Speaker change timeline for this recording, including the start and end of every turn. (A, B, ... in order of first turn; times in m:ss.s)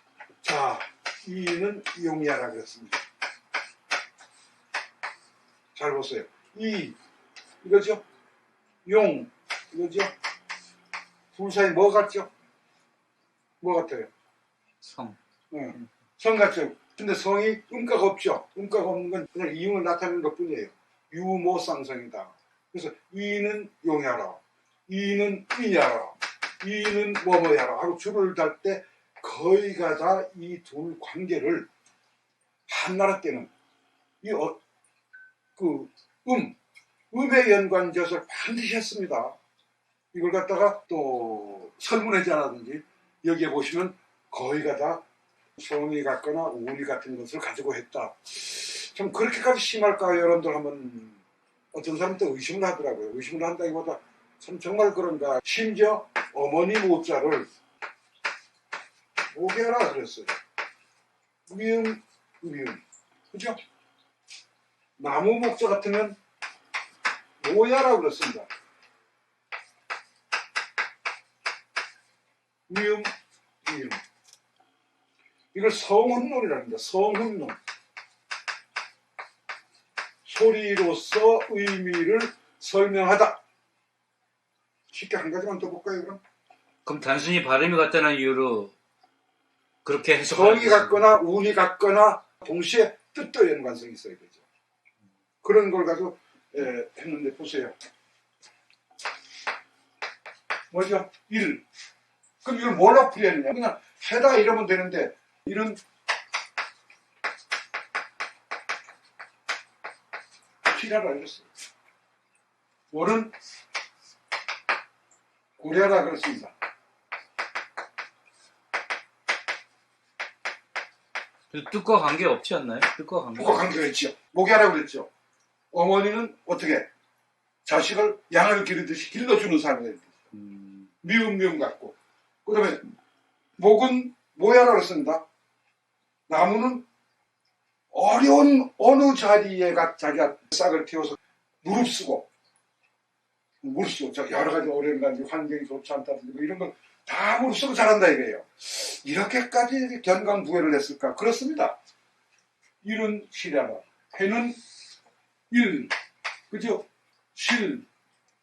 0:00.4-0:03.0 A
0:05.7-0:07.0 A
0:07.6-0:08.0 A
0:08.8-0:10.1 A
0:11.3-0:12.3 A
0:13.6-0:14.1 A
0:14.8-0:15.2 B
0:15.5-0:31.7 A
0:32.7-0:33.5 A
0:34.2-0:34.6 A
0:35.6-0:36.6 A
0:37.1-0:39.4 A
0:40.1-0:45.0 A
0:45.6-0:51.2 A
0:51.7-0:57.5 A
0:59.3-1:00.3 A
1:01.5-1:03.6 A
1:05.0-1:06.2 A
1:07.4-1:08.5 A
1:12.7-1:13.1 A
1:13.6-1:14.0 A
1:15.5-1:17.6 A
1:20.2-1:23.4 A
1:24.9-1:26.2 A
1:26.8-1:28.7 B
1:29.8-1:31.0 B
1:30.2-1:34.4 A
1:35.4-1:37.7 A
1:40.7-1:41.6 A
1:42.4-1:45.8 A
1:50.6-1:51.5 A
1:52.9-1:53.3 A
1:55.6-1:56.5 A
2:01.5-2:03.7 B
2:03.3-2:05.1 A
2:05.7-2:06.9 A
2:07.6-2:10.1 A
2:10.3-2:10.9 B
2:11.0-2:12.9 A
2:13.6-2:15.2 A
2:16.3-2:16.8 A
2:17.9-2:22.3 A
2:23.6-2:31.8 A
2:32.8-2:34.6 A
2:35.5-2:35.9 A
2:36.5-2:37.9 A